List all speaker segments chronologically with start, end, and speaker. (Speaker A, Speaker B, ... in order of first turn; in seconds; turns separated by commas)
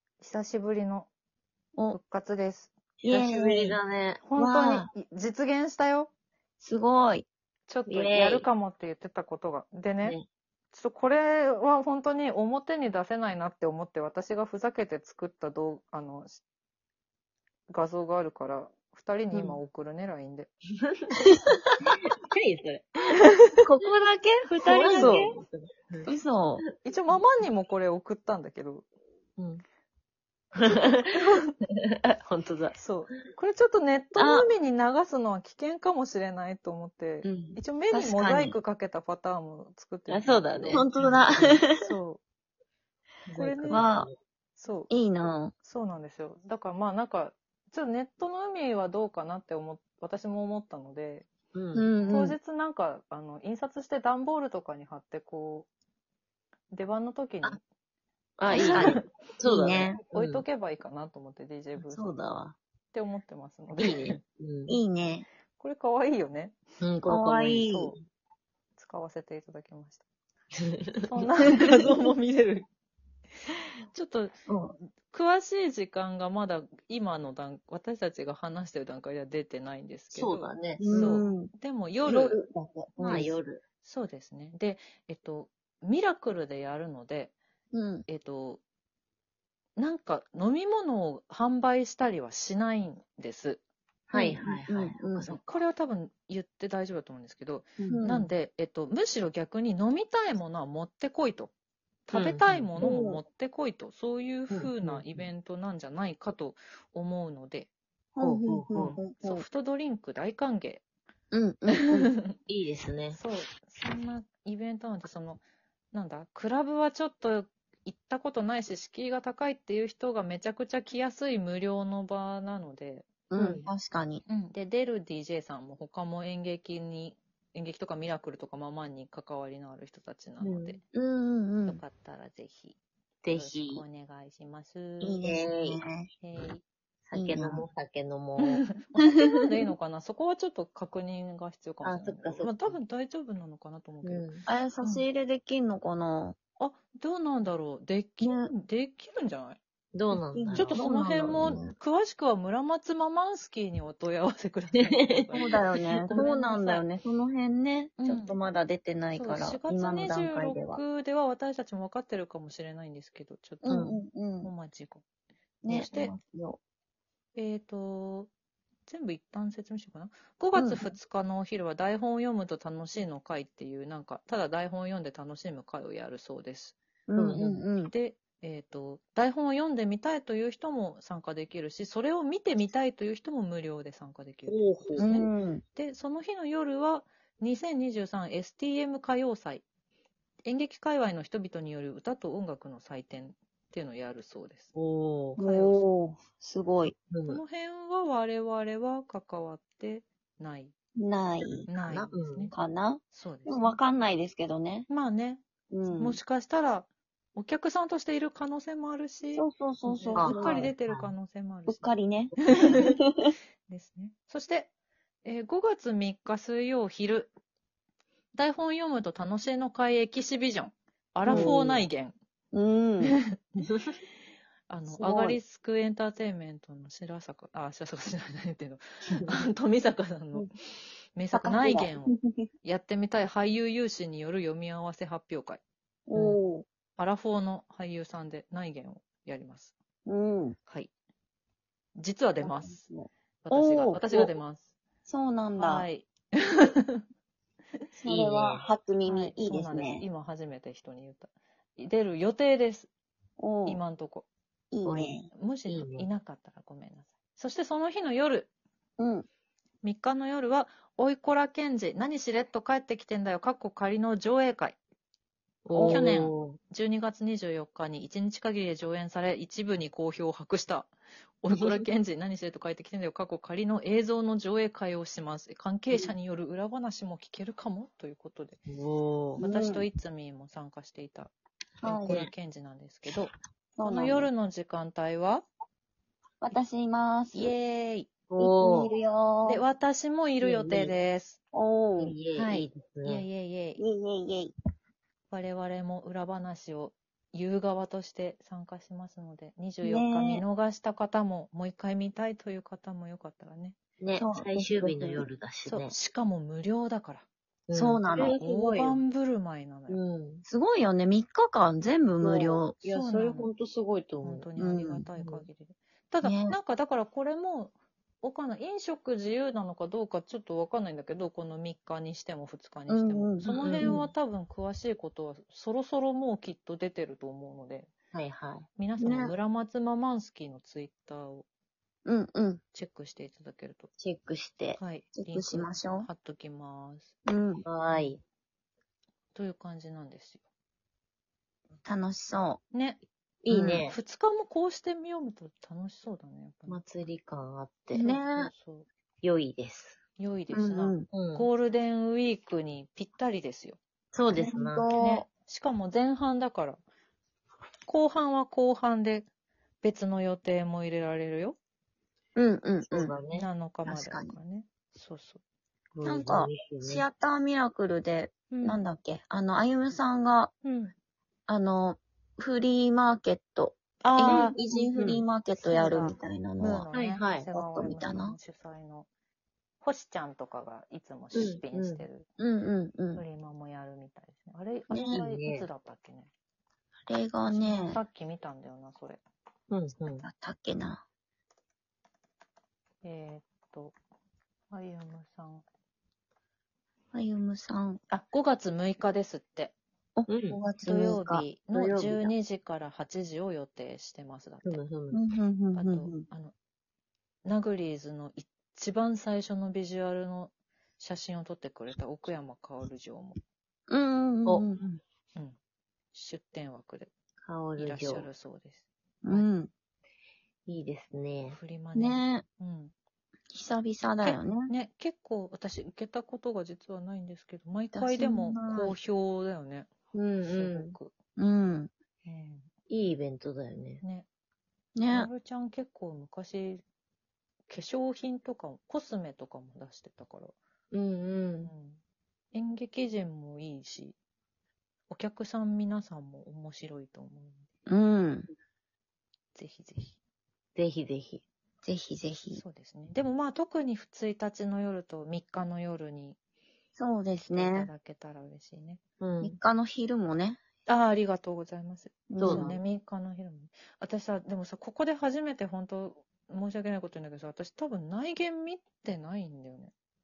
Speaker A: 0.2-1.1, Speaker A: 1.9-2.7, Speaker B: 3.0-3.8, Speaker C: 3.1-4.2, Speaker A: 4.2-6.1, Speaker B: 4.4-4.9, Speaker B: 6.6-7.3, Speaker A: 7.7-10.2, Speaker C: 7.9-8.5, Speaker A: 10.7-16.4, Speaker A: 17.7-20.5, Speaker C: 19.3-19.6, Speaker C: 21.8-26.1, Speaker B: 24.6-25.2, Speaker A: 24.9-25.3, Speaker B: 26.1-26.6, Speaker A: 26.8-28.9, Speaker C: 29.4-29.6, Speaker C: 30.6-31.0, Speaker A: 30.7-31.5, Speaker C: 31.9-32.8, Speaker A: 32.8-40.9, Speaker B: 34.2-34.5, Speaker B: 37.2-38.6, Speaker C: 40.1-41.6, Speaker B: 40.7-41.9, Speaker A: 41.8-42.2, Speaker C: 43.3-44.2, Speaker A: 43.4-43.9, Speaker B: 43.7-44.1, Speaker A: 44.6-44.9, Speaker B: 44.9-45.5, Speaker A: 45.6-51.3, Speaker C: 51.5-52.1, Speaker B: 51.7-52.4, Speaker A: 52.1-55.7, Speaker A: 56.7-57.6, Speaker C: 58.4-60.4, Speaker A: 58.5-58.9, Speaker B: 58.5-58.9, Speaker B: 59.4-60.0, Speaker A: 60.1-62.2, Speaker C: 61.8-62.6, Speaker A: 62.9-64.2, Speaker C: 63.8-64.8, Speaker B: 64.7-65.3, Speaker A: 65.6-66.6, Speaker C: 66.8-67.9, Speaker B: 67.1-67.9, Speaker A: 67.7-67.9, Speaker A: 68.8-70.0, Speaker A: 71.0-72.7, Speaker A: 73.9-74.3, Speaker B: 74.5-74.8, Speaker A: 75.1-82.4, Speaker C: 80.1-81.1, Speaker B: 80.8-81.5, Speaker B: 82.0-83.4, Speaker C: 83.0-83.6, Speaker A: 83.8-87.3, Speaker B: 87.7-88.1, Speaker A: 88.1-88.6, Speaker A: 89.8-93.6, Speaker C: 94.1-95.4, Speaker B: 94.1-95.3, Speaker A: 95.3-101.5, Speaker B: 97.8-98.3, Speaker C: 97.9-98.2, Speaker A: 102.1-107.7, Speaker C: 102.1-103.2, Speaker C: 104.5-105.2, Speaker B: 108.1-109.4, Speaker C: 108.2-109.0, Speaker A: 109.2-110.8, Speaker B: 111.3-112.1, Speaker C: 112.5-113.2, Speaker A: 113.1-115.4, Speaker A: 115.9-123.1, Speaker B: 123.3-124.2, Speaker C: 123.4-123.7, Speaker A: 124.3-130.8, Speaker C: 130.4-130.8, Speaker B: 130.9-131.8, Speaker A: 131.7-132.8, Speaker C: 133.2-133.8, Speaker A: 133.3-135.2, Speaker B: 135.0-136.1, Speaker C: 135.2-135.8, Speaker A: 136.2-136.6, Speaker C: 137.1-138.6, Speaker B: 137.1-137.6, Speaker A: 138.6-144.3, Speaker C: 141.8-142.8, Speaker C: 144.0-144.4, Speaker B: 144.4-146.4, Speaker A: 146.6-149.6, Speaker B: 148.2-148.5, Speaker C: 149.9-151.7, Speaker B: 150.1-151.4, Speaker A: 150.6-156.8, Speaker C: 154.8-156.2, Speaker B: 155.3-160.8, Speaker A: 158.0-158.3, Speaker A: 159.1-163.8, Speaker B: 163.6-164.5, Speaker C: 163.7-164.0, Speaker A: 164.4-165.0, Speaker B: 165.6-166.6, Speaker A: 165.7-166.1, Speaker A: 167.3-168.3, Speaker A: 168.9-176.8, Speaker B: 170.6-170.9, Speaker B: 177.1-177.9, Speaker C: 177.2-177.6, Speaker A: 177.9-189.6, Speaker C: 184.5-185.1, Speaker B: 185.0-185.6, Speaker A: 190.4-194.7, Speaker C: 194.8-195.4, Speaker B: 195.4-196.9, Speaker A: 195.4-195.8, Speaker C: 197.1-197.4, Speaker A: 197.3-200.7, Speaker B: 201.0-201.7, Speaker C: 201.7-202.5, Speaker A: 201.7-202.6, Speaker B: 202.5-204.9, Speaker A: 203.1-203.8, Speaker A: 204.9-205.4, Speaker B: 205.7-206.2, Speaker A: 206.0-209.4, Speaker B: 209.3-210.7, Speaker C: 209.9-211.1, Speaker A: 210.1-211.9, Speaker B: 211.7-213.3, Speaker A: 212.5-212.9, Speaker A: 213.7-214.7, Speaker A: 215.2-217.3, Speaker A: 218.3-222.1, Speaker B: 221.3-221.6, Speaker C: 221.3-221.8, Speaker B: 222.5-223.1, Speaker C: 223.6-224.0, Speaker A: 224.7-230.5, Speaker B: 224.9-225.4, Speaker A: 231.1-235.6, Speaker B: 231.3-232.4, Speaker B: 236.1-236.7, Speaker A: 237.0-239.8, Speaker B: 240.1-240.6, Speaker A: 242.0-242.8, Speaker B: 242.4-244.3, Speaker A: 243.4-244.7, Speaker B: 245.1-245.9, Speaker A: 245.6-247.0, Speaker B: 248.0-250.1, Speaker C: 248.1-248.7, Speaker A: 249.1-252.9, Speaker B: 253.4-253.8, Speaker A: 253.7-254.3, Speaker B: 254.7-255.3, Speaker C: 254.8-255.1, Speaker A: 255.3-258.5, Speaker C: 255.7-256.1, Speaker B: 259.0-259.2, Speaker A: 259.8-264.8, Speaker C: 265.7-266.6, Speaker B: 265.8-266.1, Speaker A: 265.8-270.9, Speaker A: 271.4-278.6, Speaker C: 271.5-271.8, Speaker C: 278.7-279.4, Speaker A: 279.4-281.3, Speaker B: 279.4-279.9, Speaker B: 281.8-282.2, Speaker A: 281.9-285.4, Speaker B: 283.8-284.3, Speaker B: 286.4-287.6, Speaker A: 287.3-288.1, Speaker C: 288.3-288.9, Speaker B: 288.4-289.6, Speaker A: 289.4-291.4, Speaker C: 290.4-290.9, Speaker B: 291.5-292.2, Speaker C: 292.0-293.2, Speaker A: 292.4-293.8, Speaker B: 293.8-294.5, Speaker A: 295.3-303.8, Speaker B: 299.8-300.4, Speaker C: 304.0-305.9, Speaker B: 304.2-305.3, Speaker A: 305.7-307.3, Speaker C: 307.7-309.0, Speaker B: 307.7-308.4, Speaker A: 308.4-310.0, Speaker C: 309.9-310.4, Speaker B: 310.4-312.8, Speaker C: 312.2-314.5, Speaker A: 312.8-313.5, Speaker A: 314.2-327.9, Speaker B: 314.6-315.1, Speaker B: 316.2-316.6, Speaker B: 322.9-324.1, Speaker C: 323.5-323.9, Speaker C: 328.1-328.6, Speaker A: 328.8-331.5, Speaker B: 329.0-329.3, Speaker B: 332.1-332.6, Speaker A: 332.7-333.9, Speaker C: 334.0-334.8, Speaker A: 334.8-337.1, Speaker B: 335.1-336.1, Speaker B: 337.2-337.6, Speaker C: 337.6-338.2, Speaker A: 337.9-338.2, Speaker A: 339.3-340.4, Speaker B: 341.9-342.6, Speaker A: 342.7-343.0, Speaker C: 343.4-344.0, Speaker A: 343.6-346.8, Speaker C: 346.7-348.0, Speaker B: 347.9-348.5, Speaker A: 347.9-348.9, Speaker C: 349.2-350.0, Speaker A: 350.2-353.8, Speaker B: 350.5-351.1, Speaker C: 351.1-351.5, Speaker C: 354.1-354.9, Speaker B: 354.3-355.2, Speaker A: 355.0-356.8, Speaker A: 357.9-359.2, Speaker A: 359.8-361.6, Speaker B: 362.4-363.1, Speaker C: 362.9-363.5, Speaker A: 363.3-365.4, Speaker B: 363.9-364.4, Speaker C: 365.9-367.1, Speaker B: 366.0-370.5, Speaker A: 368.5-368.8, Speaker A: 370.6-370.9, Speaker B: 371.5-376.9, Speaker A: 374.0-374.6, Speaker C: 374.2-375.2, Speaker A: 375.6-379.1, Speaker C: 376.9-377.5, Speaker B: 377.5-378.4, Speaker A: 379.8-382.3, Speaker C: 381.3-382.1, Speaker B: 382.4-383.2, Speaker A: 383.1-386.3, Speaker B: 384.9-385.2, Speaker C: 385.1-385.7, Speaker B: 387.1-388.0, Speaker A: 387.5-389.2, Speaker C: 389.7-390.3, Speaker B: 390.2-391.0, Speaker A: 393.0-394.0, Speaker A: 394.7-395.6, Speaker B: 397.1-398.0, Speaker A: 398.1-399.8, Speaker B: 400.2-401.5, Speaker C: 400.3-400.6, Speaker A: 400.9-404.8, Speaker C: 401.7-402.3, Speaker C: 404.6-405.2, Speaker B: 405.1-406.2, Speaker A: 405.7-406.5, Speaker A: 407.4-413.4, Speaker B: 413.9-414.8, Speaker A: 416.1-417.1, Speaker C: 417.4-418.3, Speaker A: 417.8-419.5, Speaker B: 419.2-419.7, Speaker C: 420.7-421.6, Speaker A: 421.5-422.9, Speaker B: 421.9-422.4, Speaker B: 423.5-424.7, Speaker A: 424.2-429.9, Speaker B: 427.9-429.0, Speaker C: 430.1-431.0, Speaker A: 430.4-431.1, Speaker B: 431.4-431.9, Speaker A: 432.2-432.6, Speaker C: 432.9-434.0, Speaker A: 434.0-434.3, Speaker B: 435.0-435.3, Speaker A: 435.1-436.8, Speaker A: 437.7-440.6, Speaker C: 440.9-441.7, Speaker A: 441.6-442.0, Speaker A: 442.5-444.1, Speaker A: 445.1-447.6, Speaker B: 447.9-448.5, Speaker A: 449.5-450.2, Speaker C: 450.8-451.4, Speaker B: 451.8-452.6, Speaker A: 452.5-456.4, Speaker B: 457.0-457.9, Speaker A: 457.5-459.0, Speaker C: 459.2-459.6, Speaker B: 459.4-460.6, Speaker A: 460.9-469.9, Speaker B: 462.3-462.8, Speaker C: 462.4-462.8